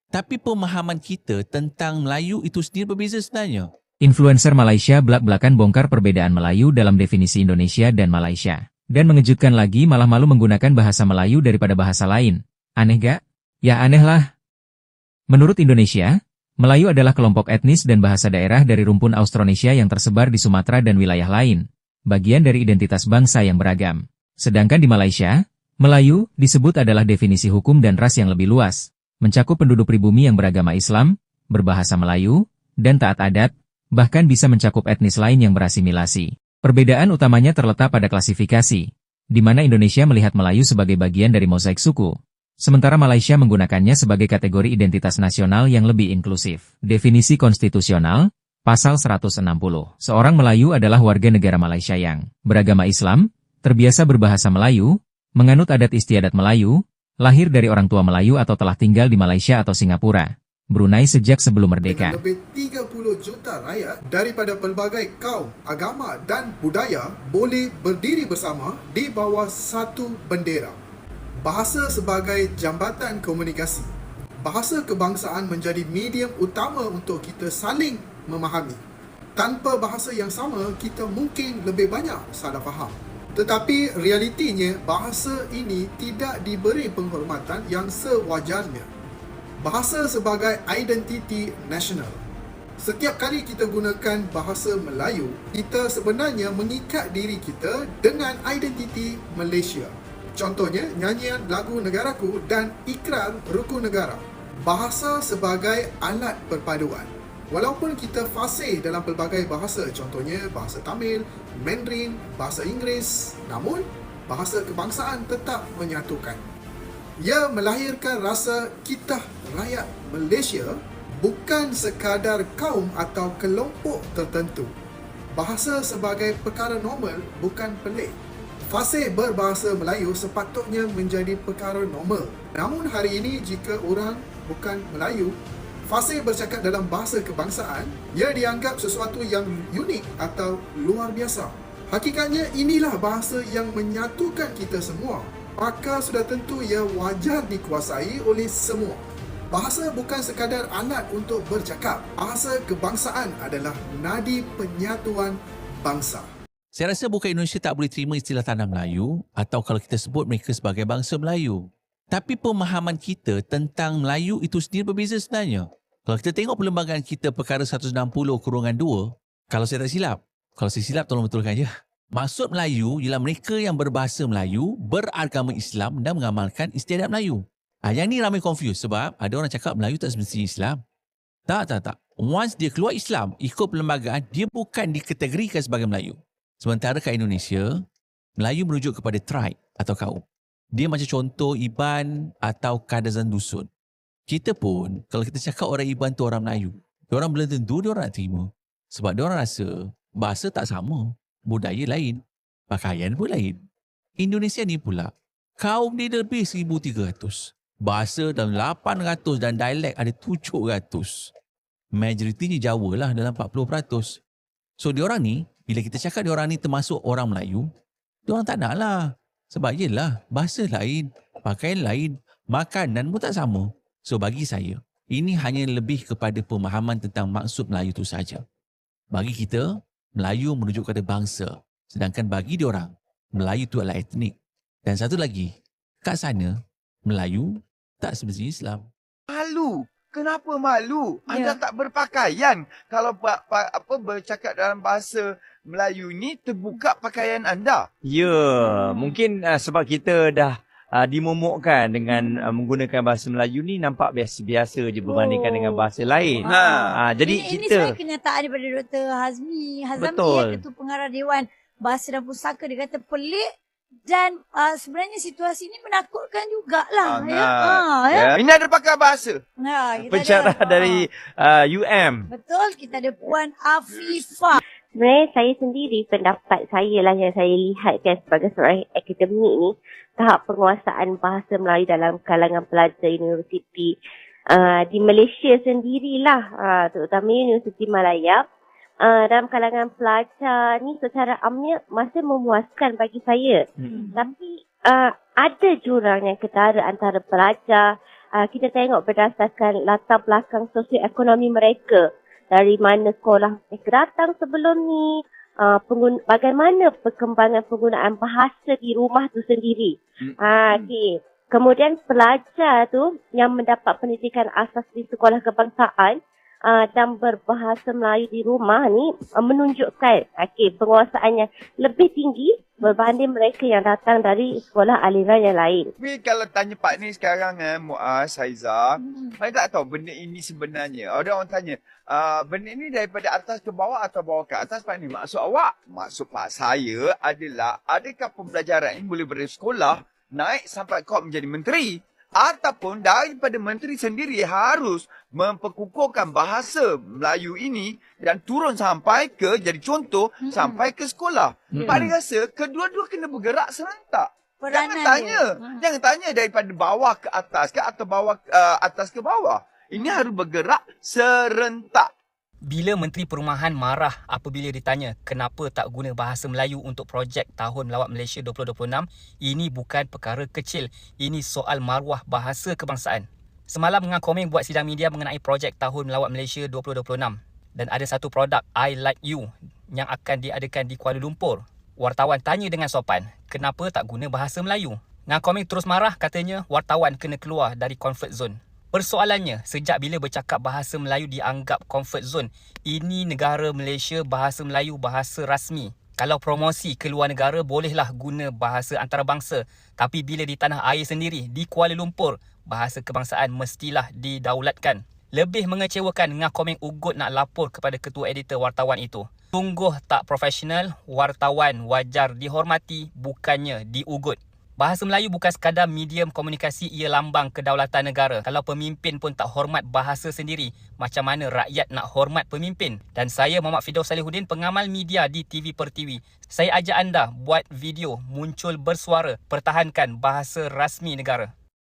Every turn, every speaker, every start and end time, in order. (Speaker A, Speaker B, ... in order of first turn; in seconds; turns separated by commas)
Speaker A: 0.1-3.7, Speaker B: 1.3-2.2, Speaker B: 2.9-3.5, Speaker B: 4.0-14.3, Speaker B: 15.3-62.2, Speaker C: 61.8-70.8, Speaker C: 71.4-78.8, Speaker C: 79.4-88.9, Speaker C: 89.6-92.2, Speaker C: 92.8-116.4, Speaker C: 117.2-124.7, Speaker C: 125.3-128.2, Speaker C: 128.7-135.3, Speaker C: 135.9-156.3, Speaker A: 156.7-161.6, Speaker A: 162.1-164.7, Speaker B: 164.4-165.5, Speaker A: 165.2-169.0, Speaker B: 168.4-169.0, Speaker A: 169.5-171.6, Speaker B: 169.8-170.1, Speaker B: 170.8-171.7, Speaker A: 172.2-177.3, Speaker B: 172.3-177.4, Speaker A: 177.8-180.8, Speaker B: 178.8-179.3, Speaker B: 180.0-180.6, Speaker A: 181.5-187.6, Speaker B: 181.7-184.4, Speaker B: 184.9-185.6, Speaker A: 188.4-190.1, Speaker B: 189.3-190.2, Speaker A: 190.8-193.5, Speaker B: 190.9-193.7, Speaker B: 194.3-196.7, Speaker A: 194.3-195.6, Speaker A: 196.3-199.6, Speaker B: 197.4-198.2, Speaker B: 199.0-199.7, Speaker A: 200.2-201.0, Speaker B: 200.4-200.9, Speaker B: 201.5-202.2, Speaker A: 201.6-202.1, Speaker B: 202.7-203.5, Speaker A: 203.0-203.4, Speaker B: 204.2-205.0, Speaker A: 204.8-205.0, Speaker A: 205.6-207.3, Speaker B: 205.9-207.3, Speaker A: 207.9-211.0, Speaker B: 208.3-208.6, Speaker B: 209.4-211.1, Speaker A: 212.0-214.1, Speaker B: 212.2-213.9, Speaker A: 214.8-217.6, Speaker B: 216.5-217.2, Speaker A: 218.3-218.9, Speaker A: 219.5-228.4, Speaker A: 229.1-229.6, Speaker A: 230.2-234.3, Speaker A: 234.8-235.5, Speaker A: 236.0-236.5, Speaker A: 237.1-237.5, Speaker A: 238.0-238.8, Speaker D: 239.3-247.8, Speaker E: 248.0-258.0, Speaker F: 248.7-249.1, Speaker F: 256.4-263.5, Speaker D: 256.4-257.0, Speaker E: 260.0-260.7, Speaker F: 264.1-268.3, Speaker D: 267.0-269.4, Speaker F: 269.6-271.1, Speaker E: 270.0-272.3, Speaker F: 272.3-274.6, Speaker G: 275.0-284.0, Speaker G: 284.5-288.4, Speaker G: 289.0-293.6, Speaker E: 293.8-294.2, Speaker G: 294.1-297.8, Speaker G: 298.4-305.1, Speaker G: 305.6-325.9, Speaker D: 310.2-310.9, Speaker D: 326.0-362.1, Speaker F: 350.4-350.8, Speaker E: 351.7-352.1, Speaker F: 354.6-355.8, Speaker H: 362.6-431.5